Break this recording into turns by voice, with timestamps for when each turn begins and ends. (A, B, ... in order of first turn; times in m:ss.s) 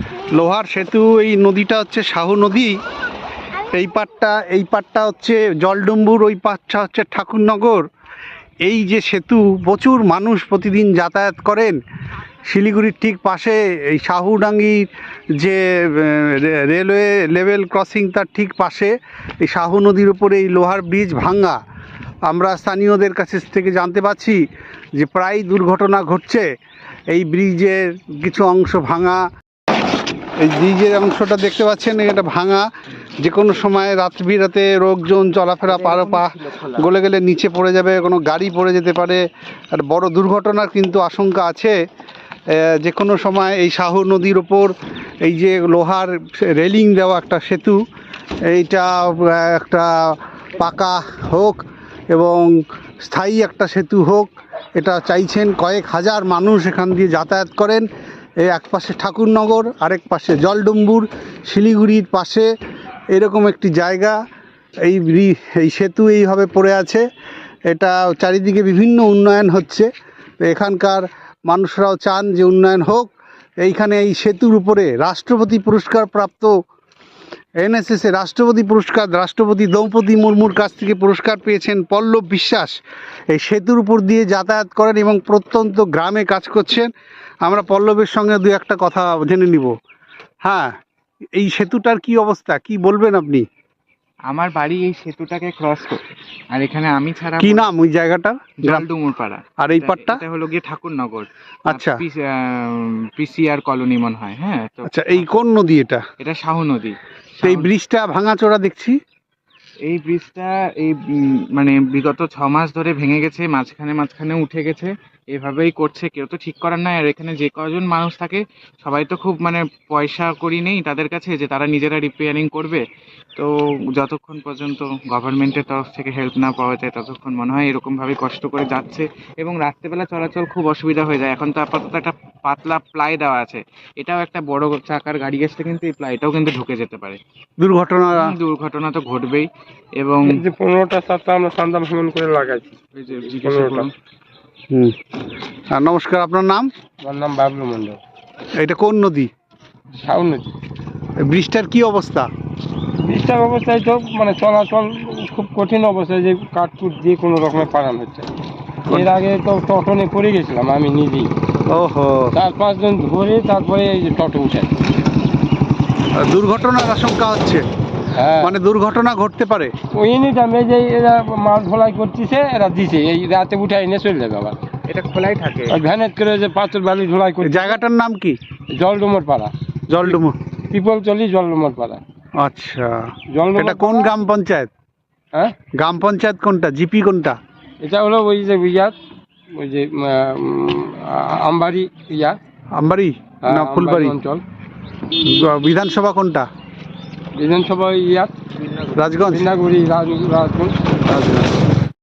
0:00.3-0:02.8 A
0:03.7-0:07.8 A
0:08.6-0:11.8 A
0:12.5-0:14.9 A
0:15.4-0:18.9 A
0:19.4-0:21.6 A
0:22.3-0:24.4 A
0:25.0-0:26.5 A
0:27.1-0:29.2 A
0:30.4-0:32.7 A
0:33.2-0:39.2 A
0:35.6-0:36.9 B
0:39.8-0:41.7 A
0:42.5-0:47.8 A
0:48.5-0:51.6 A
0:52.1-0:57.9 A
0:58.4-1:02.5 A
1:03.1-1:04.2 A
1:04.9-1:07.0 A
1:07.7-1:09.9 A
1:10.4-1:13.1 A
1:13.6-1:16.5 A
1:17.6-1:22.7 A
1:23.3-1:26.9 A
1:27.4-1:29.7 A
1:30.4-1:30.7 A
1:31.4-1:33.4 A
1:34.3-1:36.0 B
1:36.5-1:37.7 B
1:37.4-1:38.9 A
1:38.6-1:45.3 B
1:39.6-1:40.2 A
1:41.7-1:42.0 A
1:44.9-1:46.0 A
1:46.2-1:47.7 B
1:47.4-1:49.0 A
1:49.8-2:02.8 B
2:03.4-2:17.2 B
2:17.6-2:18.3 A
2:18.1-2:20.4 B
2:20.3-2:22.8 C
2:22.9-2:23.9 B
2:23.4-2:23.8 C
2:25.7-2:26.7 A
2:27.0-2:28.0 C
2:28.6-2:29.3 A
2:30.0-2:30.5 C
2:31.2-2:32.3 A
2:33.0-2:38.3 C
2:38.9-2:41.3 C
2:41.7-2:42.4 A
2:42.4-2:44.7 C
2:46.2-2:47.6 A
2:48.2-2:48.5 C
2:48.4-2:49.7 A
2:49.9-2:54.6 C
2:54.9-2:55.8 B
2:55.7-2:57.5 C
2:57.4-2:58.4 A
2:58.7-2:59.5 C
2:59.9-3:00.4 A
3:00.7-3:02.0 C
3:02.4-3:04.7 A
3:03.3-3:04.1 C
3:05.8-3:07.4 A
3:07.8-3:09.0 C
3:09.5-3:12.4 C
3:12.8-3:14.1 A
3:13.5-3:14.4 C
3:15.2-3:16.5 A
3:17.4-3:18.4 C
3:18.6-3:19.2 B
3:19.0-3:19.5 A
3:19.3-3:20.8 C
3:21.1-3:21.5 A